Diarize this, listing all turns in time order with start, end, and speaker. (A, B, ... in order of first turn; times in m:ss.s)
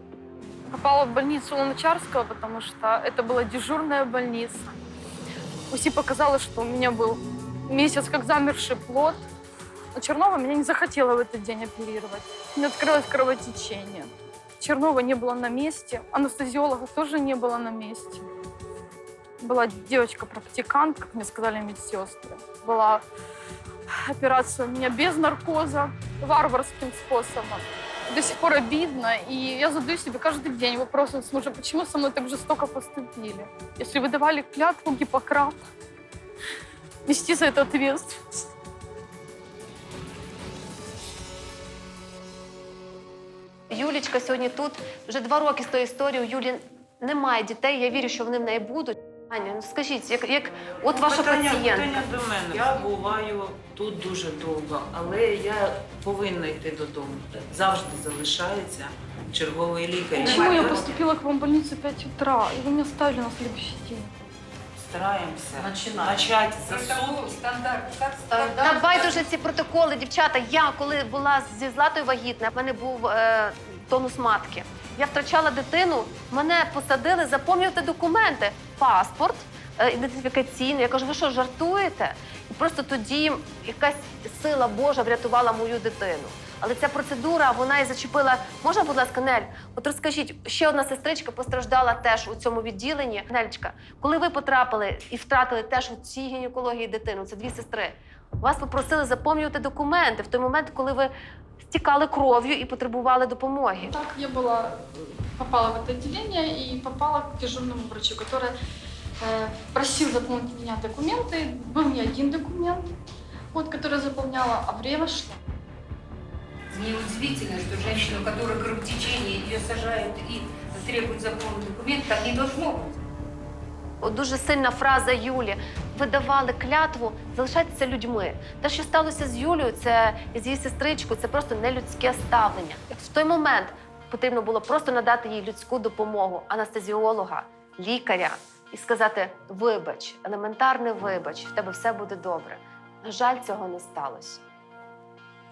0:00.7-0:04.6 A
0:05.7-0:09.2 A
0:09.9-0:18.3 A
0:19.4-0:23.0 A
0:24.0-0:35.6 A
0:37.0-0:38.5 A
0:43.7-0:52.1 B
0:50.8-1:01.0 C
1:00.1-1:04.1 A
1:04.8-1:07.4 C
1:06.6-1:09.2 D
1:08.6-1:41.1 B
1:41.7-1:43.9 B
1:43.9-1:48.5 A
1:49.2-1:52.9 A
1:53.5-1:55.4 A
1:56.7-2:03.0 D
2:04.0-2:24.4 B